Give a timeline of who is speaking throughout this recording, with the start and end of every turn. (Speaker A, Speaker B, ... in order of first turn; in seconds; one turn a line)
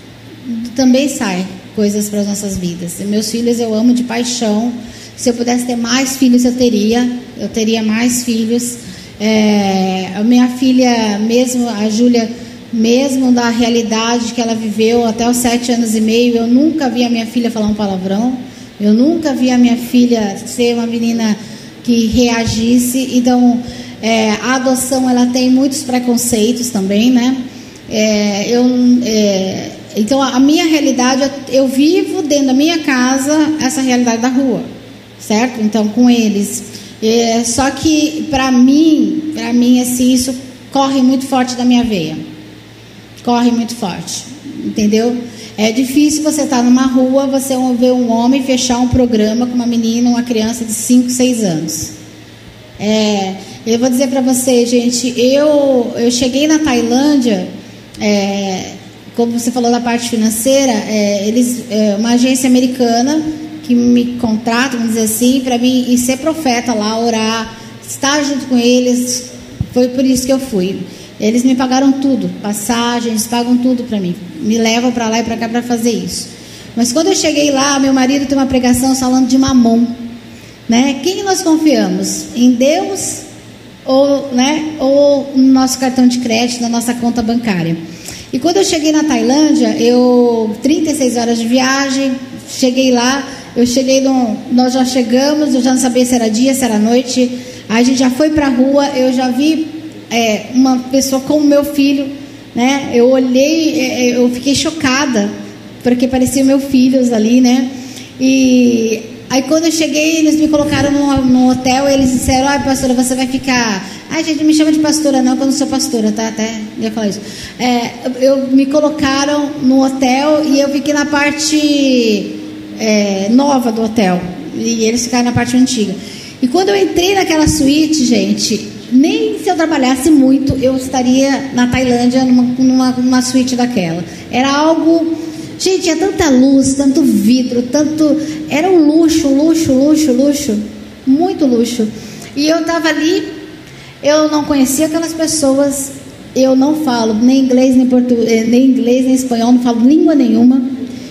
Speaker A: 0.5-34.7
Speaker A: 35.2-42.2
Speaker A: 43.2-51.9
Speaker A: 52.8-57.5
Speaker A: 58.0-80.0
Speaker A: 80.7-83.2
Speaker A: 83.8-87.8
Speaker A: 88.3-105.3
Speaker A: 105.8-143.2
Speaker A: 144.0-150.7